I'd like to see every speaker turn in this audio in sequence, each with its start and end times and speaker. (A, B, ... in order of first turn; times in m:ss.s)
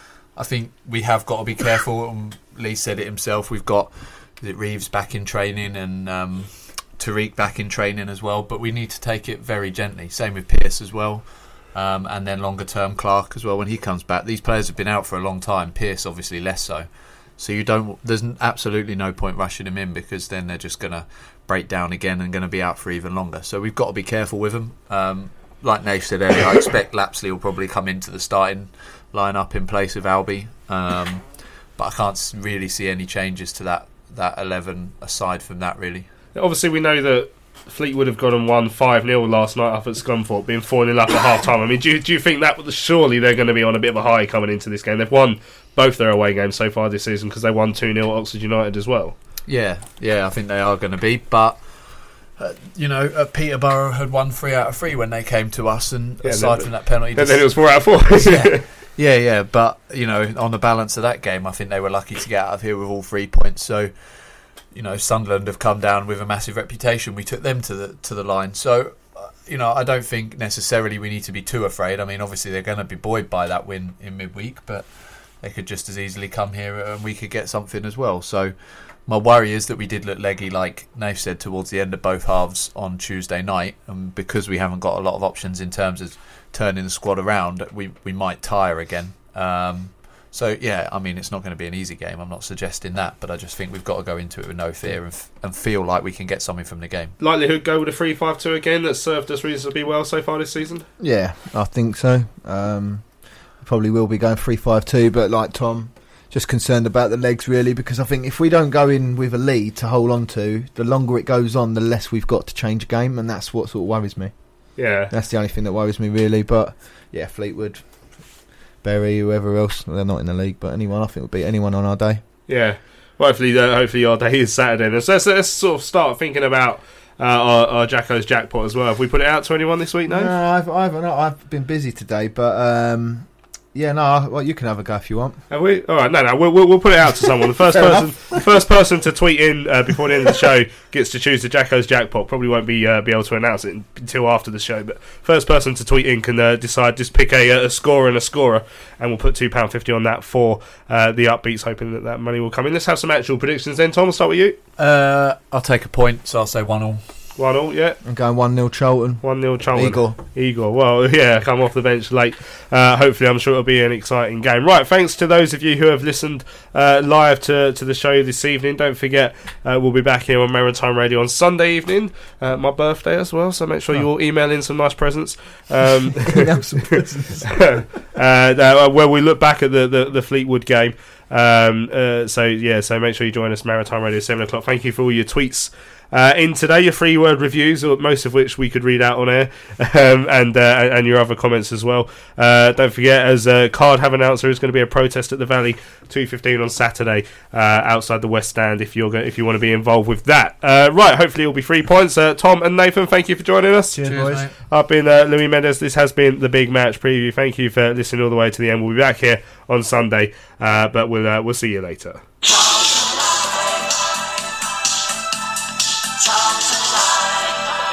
0:00.4-0:36.1 A
0:36.4-0:49.2 B
0:49.5-0:51.6 A
0:52.4-0:57.5 A
0:56.2-0:58.6 B
0:58.1-1:03.9 A
1:04.7-1:14.9 A
1:15.4-1:18.5 A
1:19.1-1:37.2 A
1:37.2-1:40.9 B
1:41.0-1:43.1 C
1:43.6-1:54.3 C
1:54.8-1:55.1 B
1:55.1-1:57.8 C
1:58.8-2:02.2 C
2:02.5-2:10.3 B
2:10.1-2:15.4 C
2:15.5-2:34.6 B
2:17.7-2:18.4 C
2:34.8-2:37.0 A
2:37.4-2:38.0 B
2:38.0-2:40.2 C
2:39.2-2:56.5 B
2:56.2-2:57.7 C
2:57.5-3:32.2 B
3:23.9-3:24.5 C
3:24.0-3:24.6 A